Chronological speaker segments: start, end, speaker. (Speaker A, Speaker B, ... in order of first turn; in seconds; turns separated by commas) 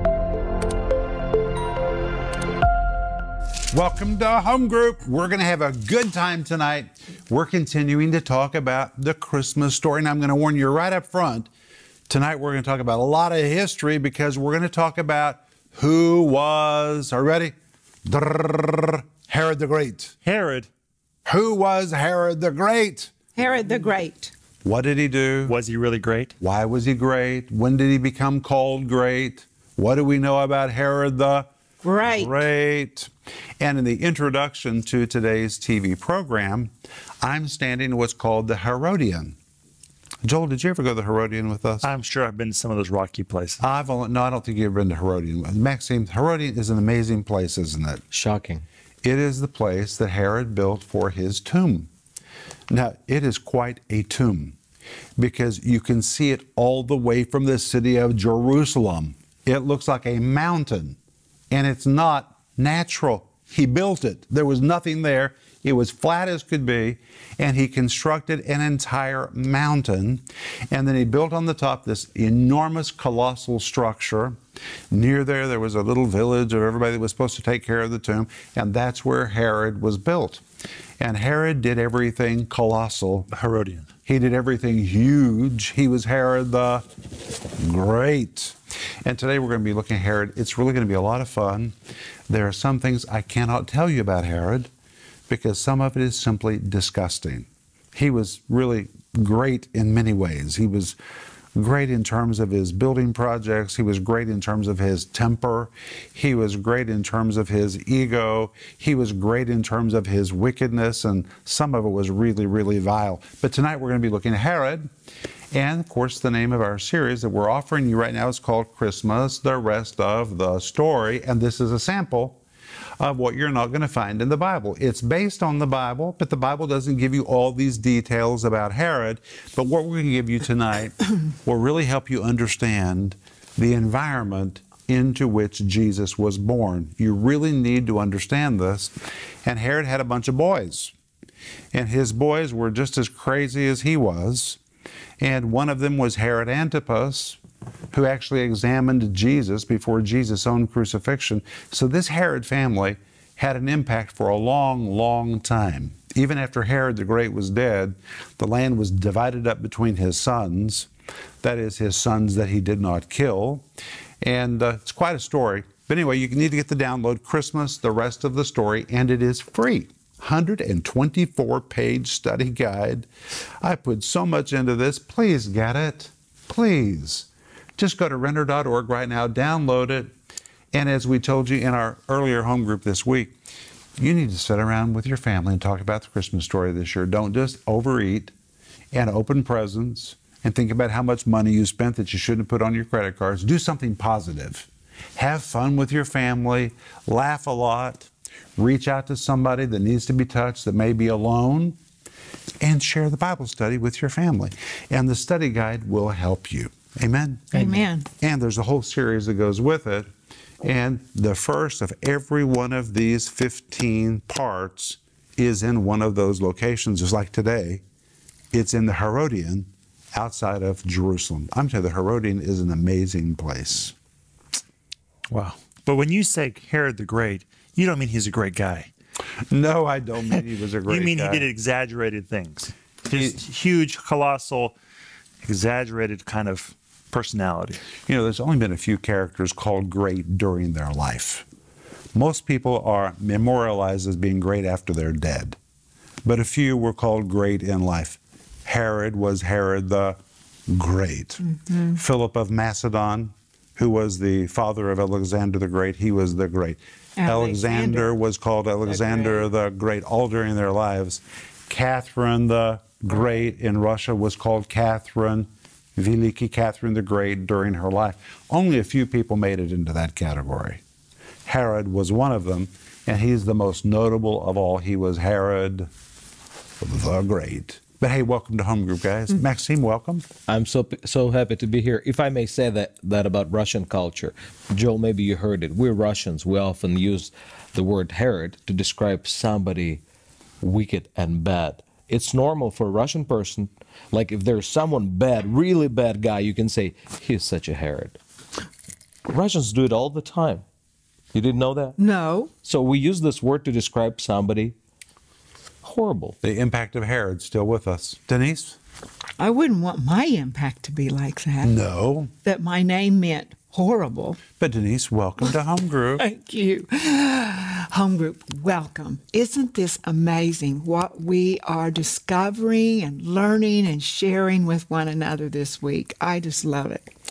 Speaker A: 3.7-11.5, Speaker A: 12.1-17.5, Speaker A: 18.1-20.1, Speaker B: 20.2-20.7, Speaker A: 21.2-23.1, Speaker C: 23.4-24.3, Speaker A: 24.6-25.6, Speaker B: 25.5-26.3, Speaker A: 26.4-31.5, Speaker C: 31.8-32.4, Speaker A: 32.0-39.4, Speaker A: 40.2-41.9, Speaker B: 41.8-43.6, Speaker A: 43.6-48.0, Speaker D: 48.1-48.6, Speaker A: 49.0-51.9, Speaker A: 52.7-54.6, Speaker A: 55.2-61.0, Speaker A: 61.5-74.4, Speaker A: 74.9-80.4, Speaker A: 81.0-83.3, Speaker B: 83.3-83.9, Speaker A: 84.1-86.8, Speaker A: 87.6-91.8, Speaker A: 92.3-94.7, Speaker A: 95.3-101.0, Speaker A: 101.5-114.9, Speaker A: 115.5-122.4, Speaker A: 123.0-138.9, Speaker A: 139.4-140.9, Speaker A: 141.7-144.6, Speaker A: 145.2-147.4, Speaker A: 147.9-160.9, Speaker A: 161.4-163.7, Speaker A: 164.2-173.1, Speaker A: 173.6-180.1, Speaker A: 180.7-183.3, Speaker A: 184.0-188.3, Speaker A: 188.9-201.8, Speaker A: 202.6-207.5, Speaker B: 207.5-207.8, Speaker C: 207.5-208.1, Speaker A: 208.2-210.1, Speaker A: 210.6-217.8, Speaker A: 218.5-223.9, Speaker B: 225.3-228.9, Speaker A: 229.5-231.5, Speaker B: 230.9-234.7, Speaker B: 235.4-237.8, Speaker A: 238.1-241.4, Speaker A: 242.1-245.6, Speaker A: 246.2-250.2, Speaker A: 250.7-270.8, Speaker C: 251.4-252.0, Speaker C: 257.2-258.1, Speaker C: 258.9-259.4, Speaker A: 271.5-275.9, Speaker A: 276.8-280.3, Speaker D: 280.5-290.0, Speaker D: 290.6-298.2, Speaker D: 299.3-300.6, Speaker D: 301.3-302.0, Speaker C: 302.0-302.5, Speaker D: 302.6-304.8, Speaker D: 305.8-306.4, Speaker A: 306.4-308.8, Speaker C: 309.4-311.8, Speaker A: 311.6-312.3, Speaker C: 312.4-314.4, Speaker A: 314.6-316.2, Speaker C: 316.2-327.1